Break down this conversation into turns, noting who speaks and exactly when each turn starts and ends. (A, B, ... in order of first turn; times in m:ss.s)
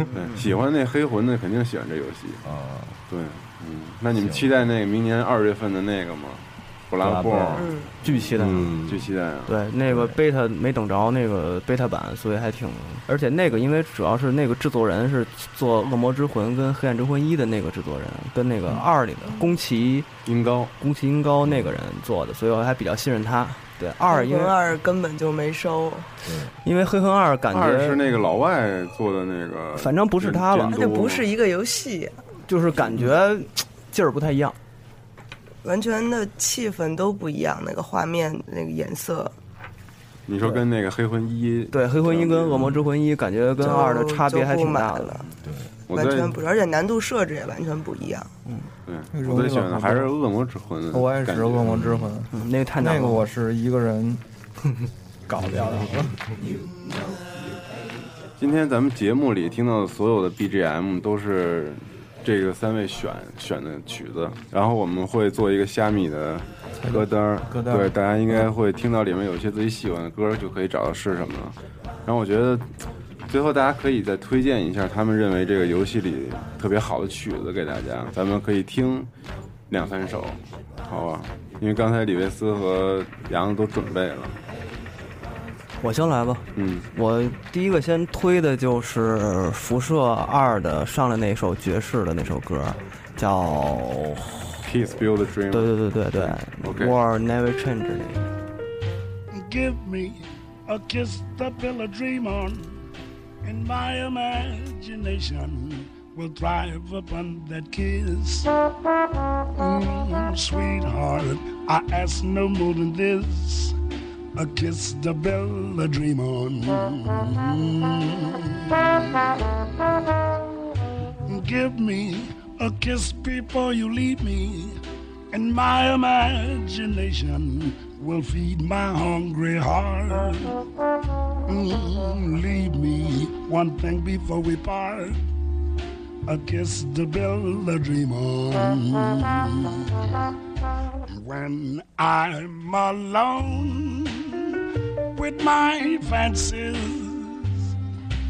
0:00.2-0:02.4 A
0:02.4-0:03.0 B
0:03.1-0:07.8 A
0:04.1-0:04.4 B
0:07.0-0:07.7 B
0:07.6-0:07.9 C
0:08.0-0:08.8 D
0:08.4-0:09.1 B
0:08.8-0:09.6 A
0:09.5-0:20.1 D
0:09.9-0:10.2 B
0:20.2-0:20.7 A
0:20.8-0:24.6 D
0:21.4-0:21.8 B
0:24.1-0:26.1 C
0:26.2-0:26.5 B
0:26.6-0:28.0 D
0:27.5-0:31.3 A
0:29.8-0:30.8 D
0:30.7-0:32.2 C
0:32.4-0:34.6 D
0:35.6-0:39.4 C
0:40.3-0:42.8 A
0:41.7-0:45.2 D
0:43.6-0:45.2 C
0:45.4-0:45.7 B
0:45.9-0:46.3 A
0:45.9-0:48.3 C
0:48.9-0:51.8 A
0:49.1-0:50.1 E
0:50.9-0:54.2 E
0:51.7-0:52.1 B
0:52.3-0:53.2 D
0:55.3-0:56.3 E
0:58.4-1:12.7 A
1:06.8-1:08.4 E
1:13.3-1:19.1 A
1:19.7-1:24.4 A
1:25.8-1:34.5 D
1:26.6-1:26.8 A
1:34.6-1:37.0 A
1:35.5-1:38.3 D
1:39.3-1:42.8 F
1:43.4-1:48.5 F
1:49.6-1:53.8 F
1:54.4-1:59.4 F
2:01.3-2:04.8 F
2:05.3-2:10.6 F
2:11.5-2:15.2 F
2:16.3-2:20.1 F
2:21.1-2:24.6 F
2:25.1-2:27.6 F